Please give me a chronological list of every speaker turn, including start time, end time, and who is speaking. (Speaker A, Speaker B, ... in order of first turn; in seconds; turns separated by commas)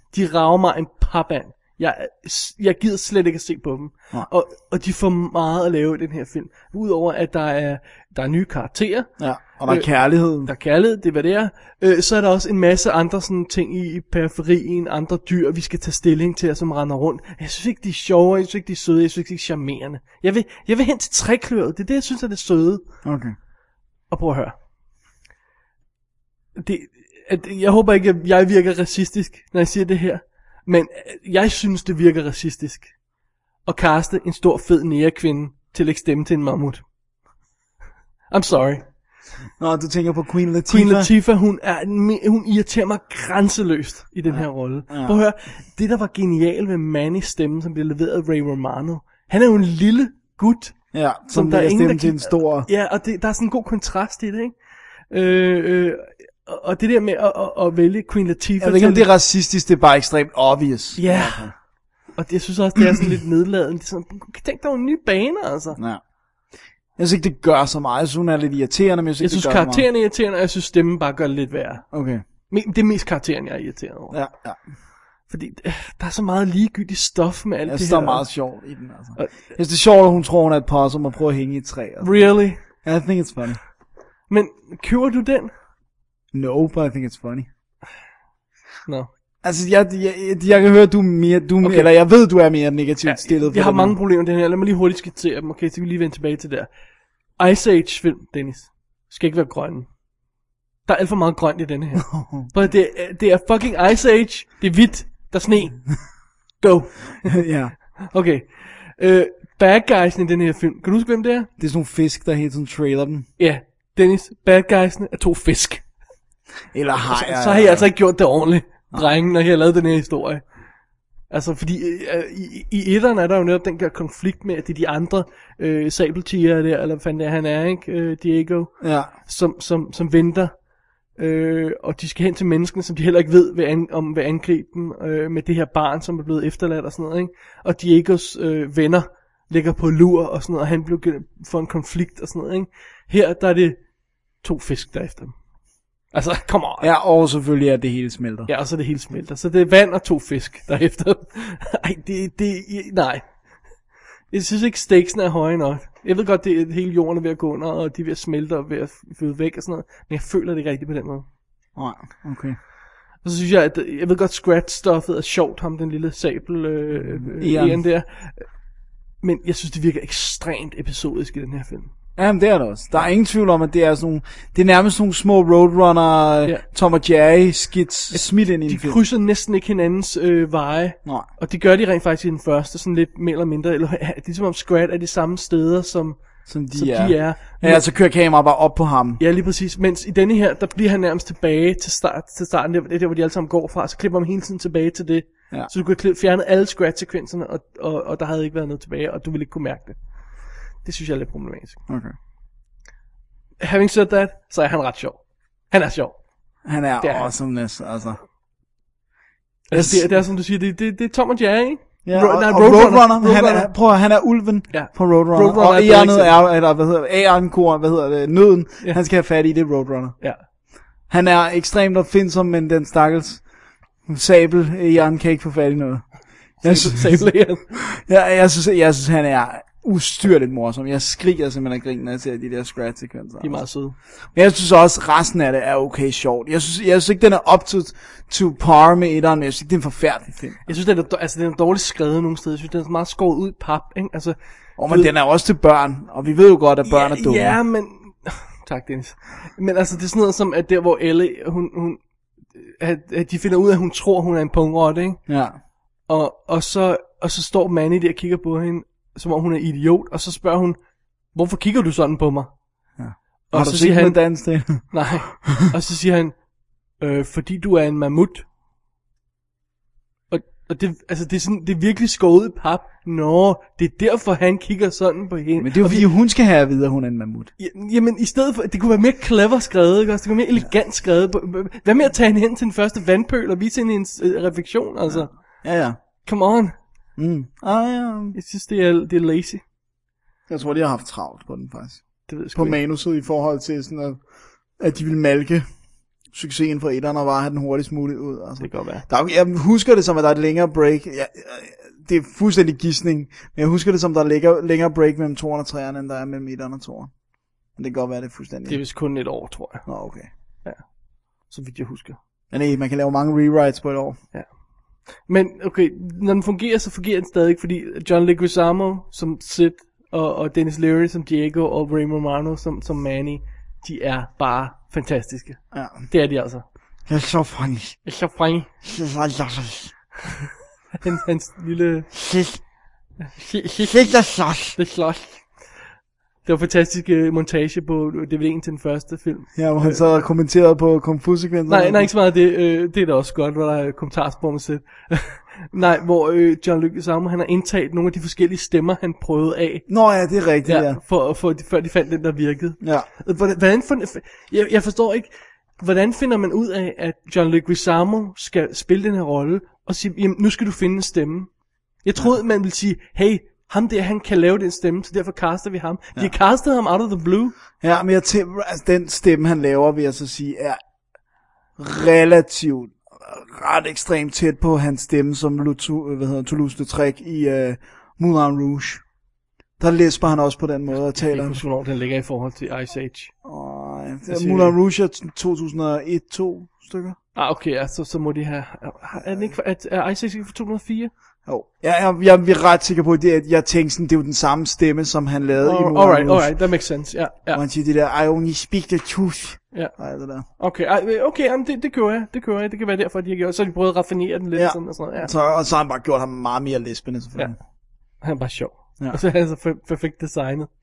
Speaker A: 0.1-9.1, Speaker B: 9.2-10.5, Speaker A: 10.4-22.9, Speaker B: 23.0-23.4, Speaker A: 24.1-24.6, Speaker A: 26.6-32.9, Speaker A: 33.6-36.8, Speaker A: 38.3-38.8, Speaker B: 39.6-41.1, Speaker A: 40.7-50.8, Speaker B: 44.3-45.1, Speaker B: 50.9-52.7, Speaker A: 51.3-54.5, Speaker A: 55.1-59.1, Speaker B: 58.6-61.5, Speaker A: 61.0-61.5, Speaker A: 62.1-65.8, Speaker B: 65.8-66.0, Speaker B: 67.0-69.9, Speaker A: 69.2-71.9, Speaker B: 71.9-72.2, Speaker A: 72.5-74.2, Speaker B: 74.1-74.6, Speaker A: 75.3-78.3, Speaker B: 77.7-83.6, Speaker A: 82.0-82.6, Speaker A: 84.3-85.5, Speaker B: 86.3-87.5, Speaker B: 89.4-93.9, Speaker A: 91.6-91.9, Speaker A: 93.1-96.7, Speaker A: 97.4-99.9, Speaker A: 100.9-105.9, Speaker B: 102.0-102.5, Speaker A: 106.6-107.4, Speaker B: 107.3-107.7, Speaker A: 108.1-111.5, Speaker B: 111.6-113.3, Speaker A: 113.4-115.8, Speaker B: 116.7-117.9, Speaker A: 117.1-120.4, Speaker A: 121.3-130.5, Speaker B: 128.8-129.1, Speaker A: 131.2-143.8, Speaker A: 144.4-145.3, Speaker A: 146.1-146.9, Speaker B: 146.8-148.5, Speaker A: 148.5-153.2, Speaker A: 154.3-161.2, Speaker B: 161.8-162.6, Speaker A: 163.2-168.5, Speaker B: 167.1-167.8, Speaker A: 169.2-171.9, Speaker B: 172.2-179.0, Speaker A: 178.1-186.2, Speaker B: 186.5-189.2, Speaker A: 186.7-187.8, Speaker A: 189.2-200.0, Speaker A: 200.8-201.8, Speaker B: 201.9-202.1, Speaker A: 203.6-206.2, Speaker B: 206.6-208.2, Speaker A: 207.0-207.3, Speaker A: 209.7-213.7, Speaker B: 209.7-210.1, Speaker B: 212.1-220.2, Speaker A: 214.7-216.4, Speaker B: 221.1-223.4, Speaker B: 224.1-233.6, Speaker A: 226.6-227.7, Speaker A: 233.4-233.9, Speaker B: 234.3-240.7, Speaker A: 240.7-245.1, Speaker B: 244.8-247.6, Speaker A: 246.9-252.0, Speaker A: 252.6-255.2, Speaker B: 255.3-255.6, Speaker A: 256.1-260.8, Speaker A: 261.3-262.5, Speaker B: 263.0-265.1, Speaker A: 263.5-264.2, Speaker A: 264.8-266.4, Speaker A: 267.0-268.4, Speaker A: 270.3-276.1, Speaker B: 275.6-277.5, Speaker A: 277.6-285.3, Speaker B: 285.1-286.0, Speaker A: 286.2-286.7, Speaker B: 287.2-288.4, Speaker A: 288.3-289.6, Speaker B: 290.5-295.7, Speaker A: 292.3-292.8, Speaker B: 296.3-307.1, Speaker A: 298.6-299.1, Speaker B: 307.8-308.9, Speaker A: 308.7-309.9, Speaker B: 309.9-310.3, Speaker A: 311.4-312.2, Speaker B: 312.5-314.2, Speaker A: 315.2-326.6, Speaker B: 325.7-326.1, Speaker B: 327.1-328.0, Speaker A: 328.1-328.7, Speaker B: 328.8-329.9, Speaker A: 331.0-332.1, Speaker B: 332.1-332.6, Speaker A: 333.3-334.1, Speaker B: 333.9-334.8, Speaker A: 334.8-335.5, Speaker A: 336.4-340.1, Speaker B: 339.6-342.1, Speaker A: 341.7-349.9, Speaker B: 349.9-351.0, Speaker A: 350.6-361.5, Speaker B: 352.8-353.1, Speaker A: 362.0-367.6, Speaker B: 367.8-370.8, Speaker B: 371.8-379.0, Speaker B: 379.8-381.6, Speaker A: 381.1-383.3, Speaker B: 383.4-387.2, Speaker A: 384.3-384.7, Speaker A: 387.4-391.1, Speaker B: 391.5-396.6, Speaker A: 395.6-397.6, Speaker B: 397.5-400.4, Speaker A: 400.6-405.3, Speaker B: 404.6-407.6, Speaker A: 408.2-410.7